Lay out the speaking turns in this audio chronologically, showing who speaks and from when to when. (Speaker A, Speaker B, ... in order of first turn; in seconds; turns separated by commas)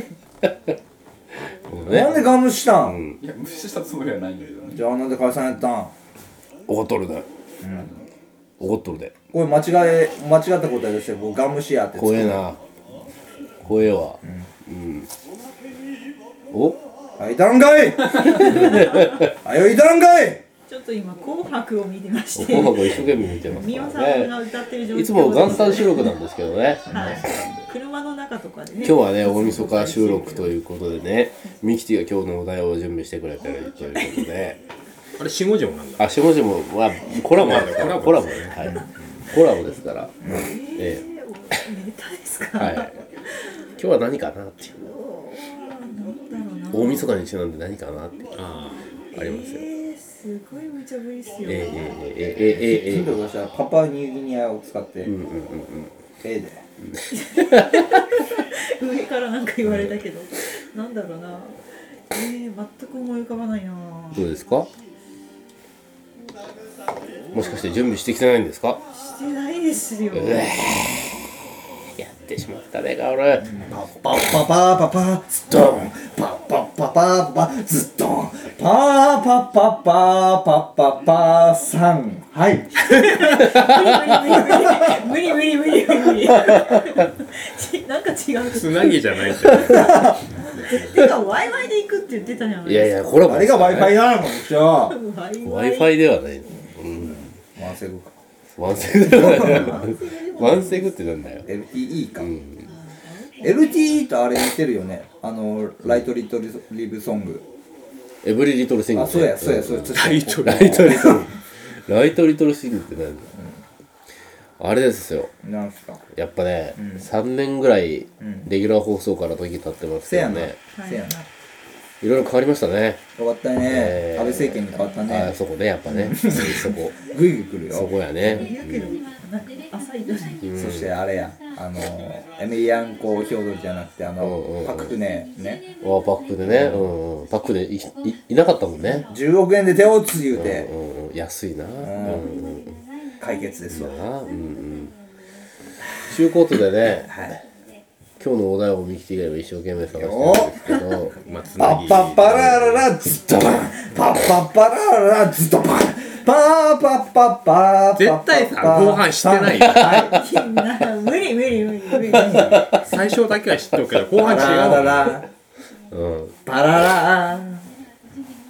Speaker A: 1.7-2.2, Speaker B: 1.9-3.0, Speaker A: 2.8-3.1, Speaker C: 3.1-4.8, Speaker B: 4.7-5.9, Speaker A: 6.7-7.2, Speaker B: 7.6-7.9, Speaker A: 8.6-9.1, Speaker B: 9.3-12.4, Speaker A: 11.9-12.6, Speaker A: 13.6-15.1, Speaker B: 14.2-14.5, Speaker A: 16.5-16.8, Speaker B: 17.2-20.4, Speaker D: 18.4-19.2, Speaker A: 18.6-19.0, Speaker D: 20.7-26.1, Speaker A: 22.3-24.4, Speaker A: 24.9-27.4, Speaker D: 26.9-30.6, Speaker B: 26.9-27.1, Speaker C: 26.9-27.7, Speaker A: 28.8-34.6, Speaker D: 33.9-34.3, Speaker E: 35.1-36.1, Speaker A: 36.0-41.0, Speaker E: 37.1-38.7, Speaker B: 40.2-40.5, Speaker D: 40.3-43.8, Speaker A: 42.5-43.0, Speaker A: 43.8-44.9, Speaker D: 44.8-47.1, Speaker A: 46.7-48.3, Speaker E: 48.3-48.9, Speaker D: 49.1-52.0, Speaker A: 49.1-49.7, Speaker A: 51.4-53.1, Speaker B: 52.4-55.1, Speaker A: 55.0-55.9, Speaker B: 56.2-56.6, Speaker D: 57.1-61.6, Speaker A: 57.5-57.8, Speaker D: 62.1-64.3, Speaker A: 64.1-64.7, Speaker A: 67.3-68.8, Speaker D: 68.9-70.9, Speaker A: 70.1-70.9, Speaker A: 72.0-73.5, Speaker B: 73.4-83.0, Speaker D: 82.7-93.2, Speaker E: 88.5-91.0, Speaker B: 89.6-90.1, Speaker A: 92.6-94.0, Speaker B: 93.2-95.0, Speaker D: 94.6-96.6, Speaker A: 95.4-97.3, Speaker B: 97.5-98.2, Speaker A: 98.5-101.5, Speaker B: 98.9-99.9, Speaker D: 99.2-100.9, Speaker B: 101.4-102.3, Speaker A: 102.2-102.6, Speaker D: 102.6-104.0, Speaker B: 103.4-107.4, Speaker A: 108.2-113.3, Speaker B: 108.9-111.3, Speaker E: 109.9-111.2, Speaker A: 114.6-115.3, Speaker B: 115.4-116.0, Speaker A: 116.1-120.6, Speaker B: 116.8-117.0, Speaker B: 118.2-118.5, Speaker B: 120.0-121.3, Speaker D: 120.7-121.0, Speaker A: 122.0-123.0, Speaker B: 123.2-125.3, Speaker A: 123.7-126.9, Speaker B: 125.9-127.9, Speaker A: 127.7-129.0, Speaker D: 128.2-130.4, Speaker A: 130.4-130.8, Speaker B: 130.5-135.6, Speaker A: 134.2-134.9, Speaker A: 135.8-139.1, Speaker B: 136.4-136.9, Speaker B: 138.9-140.7, Speaker A: 140.3-142.8, Speaker B: 141.8-142.2, Speaker B: 143.2-143.9, Speaker A: 143.7-144.9, Speaker A: 146.0-147.1, Speaker B: 146.9-147.4, Speaker A: 148.2-151.2, Speaker B: 149.9-150.8, Speaker E: 151.1-152.8, Speaker B: 151.6-160.2, Speaker E: 157.9-160.1, Speaker D: 159.8-162.6, Speaker B: 162.0-162.7, Speaker E: 162.7-165.2, Speaker B: 164.2-165.3, Speaker A: 165.9-166.3, Speaker B: 166.4-167.7